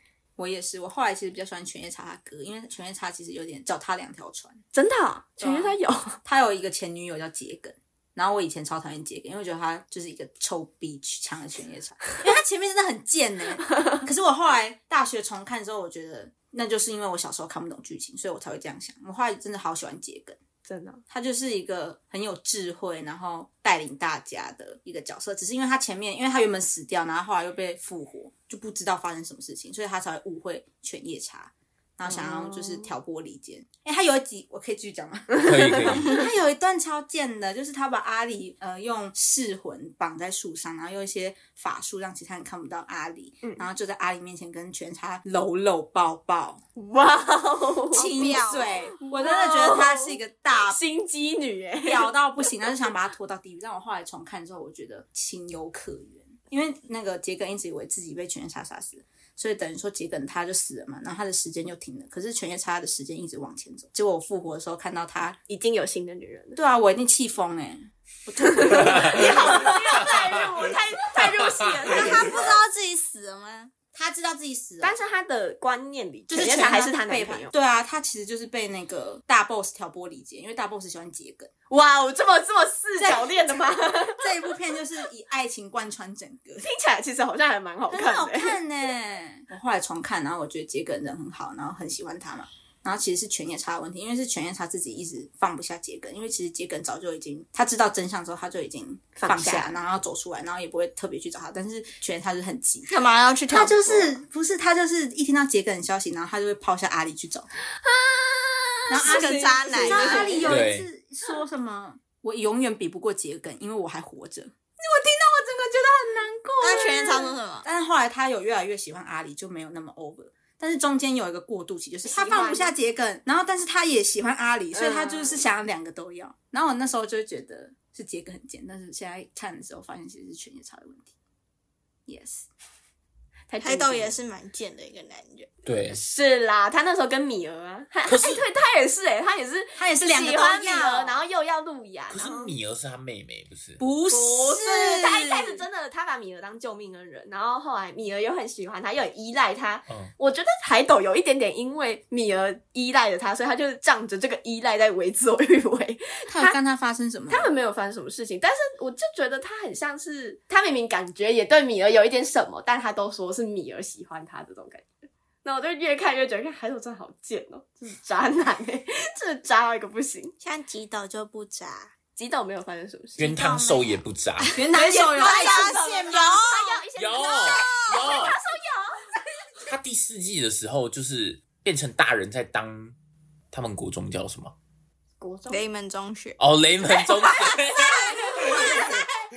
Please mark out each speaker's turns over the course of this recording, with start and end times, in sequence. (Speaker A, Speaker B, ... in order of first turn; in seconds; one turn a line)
Speaker A: 0.4-4.6
Speaker B: 4.7-6.2
Speaker A: 5.4-20.4
Speaker B: 13.7-14.0
Speaker B: 20.6-21.0
Speaker A: 21.1-46.6
Speaker B: 32.0-32.9
Speaker B: 35.3-36.2
Speaker C: 35.4-36.2
Speaker B: 43.4-43.7
Speaker B: 46.8-48.4
Speaker A: 47.9-50.8
Speaker D: 47.9-48.8
Speaker B: 49.0-52.6
Speaker A: 51.8-65.4
Speaker B: 65.5-66.6
Speaker A: 66.5-70.1
Speaker B: 68.6-72.4
Speaker C: 68.8-69.3
Speaker C: 71.2-71.9
Speaker D: 71.8-73.7
Speaker A: 72.1-72.4
Speaker A: 73.9-75.0
Speaker B: 74.8-77.5
Speaker A: 76.3-81.5
Speaker B: 81.7-84.3
Speaker A: 83.0-86.7
Speaker B: 86.6-88.6
Speaker A: 87.9-107.5
Speaker B: 99.2-99.7
Speaker D: 102.9-104.1
Speaker B: 107.8-110.6
Speaker A: 108.9-114.5
Speaker D: 108.9-110.5
Speaker C: 110.5-110.9
Speaker B: 114.8-117.3
Speaker D: 116.6-117.7
Speaker A: 117.6-131.1
Speaker B: 122.0-122.7
Speaker B: 124.7-125.4
Speaker A: 132.1-132.5
Speaker B: 133.5-134.1
Speaker D: 133.6-135.5
Speaker C: 135.7-136.0
Speaker B: 135.9-142.5
Speaker C: 138.1-138.4
Speaker A: 139.8-141.1
Speaker C: 142.1-143.8
Speaker A: 143.8-145.6
Speaker B: 144.1-156.6
Speaker C: 149.9-150.1
Speaker A: 156.3-157.5
Speaker B: 157.3-164.9
Speaker B: 165.4-170.3
Speaker D: 170.4-171.9
Speaker B: 172.2-173.3
Speaker C: 173.2-174.5
Speaker D: 173.2-176.8
Speaker A: 174.5-175.9
Speaker B: 174.7-179.0
Speaker C: 176.9-178.3
Speaker D: 177.5-178.1
Speaker C: 179.6-182.9
Speaker C: 183.5-184.5
Speaker B: 185.2-185.6
Speaker D: 185.5-186.4
Speaker C: 186.4-189.0
Speaker D: 186.9-189.1
Speaker A: 188.5-188.8